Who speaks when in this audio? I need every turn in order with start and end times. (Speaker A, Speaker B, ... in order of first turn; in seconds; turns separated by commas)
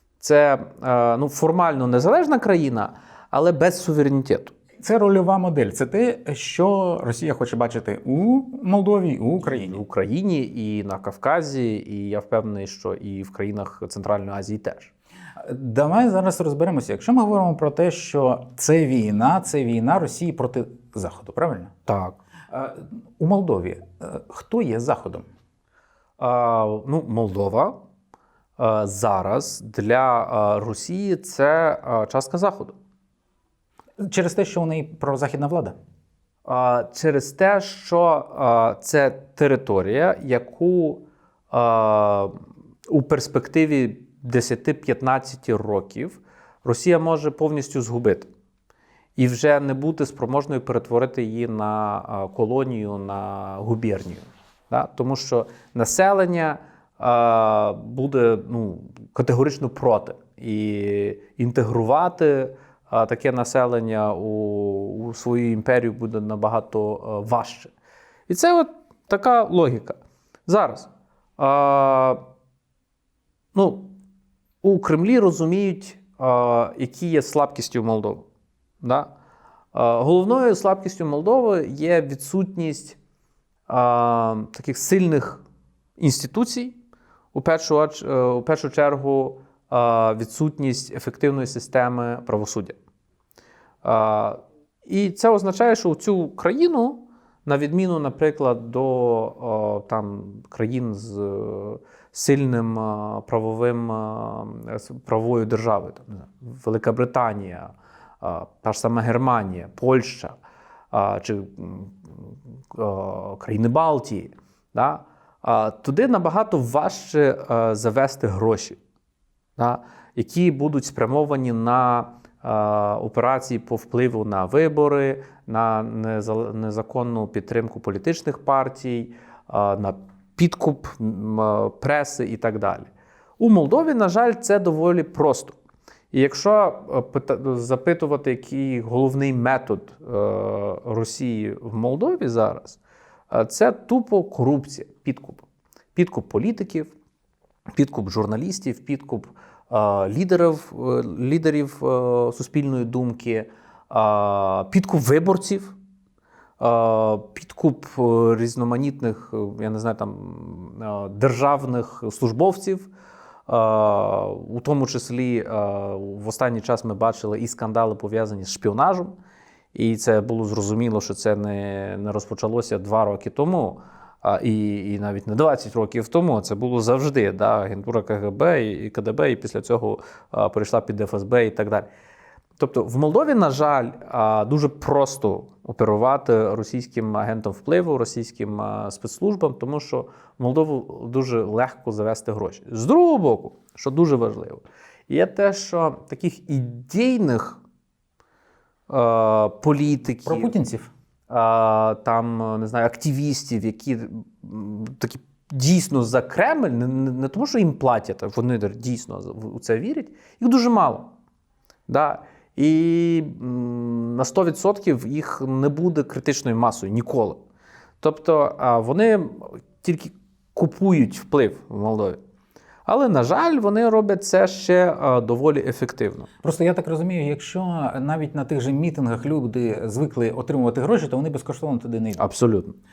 Speaker A: 0.2-4.5, Speaker B: 4.8-9.8, Speaker A: 9.4-14.9, Speaker B: 15.4-21.7, Speaker A: 21.9-22.2, Speaker B: 22.5-25.3, Speaker A: 26.2-27.8, Speaker A: 28.6-32.8, Speaker B: 34.0-35.8, Speaker A: 36.5-42.3, Speaker A: 42.9-48.3, Speaker A: 49.2-67.7, Speaker A: 68.3-72.2, Speaker A: 73.5-73.9, Speaker A: 74.6-78.3, Speaker A: 78.8-79.1, Speaker A: 79.7-83.0, Speaker A: 83.7-85.4, Speaker A: 86.0-86.8, Speaker A: 87.3-92.8, Speaker A: 93.8-110.4, Speaker A: 110.9-118.8, Speaker A: 119.6-135.6, Speaker A: 136.1-142.8, Speaker A: 143.3-146.9, Speaker A: 147.8-155.8, Speaker A: 156.6-162.9, Speaker A: 163.5-169.2, Speaker A: 169.7-181.9, Speaker A: 182.6-197.6, Speaker A: 198.9-200.6, Speaker B: 200.2-200.9, Speaker A: 201.3-211.1, Speaker A: 211.9-217.4, Speaker A: 218.0-222.2, Speaker A: 222.9-226.3, Speaker B: 226.4-232.2, Speaker A: 232.2-232.8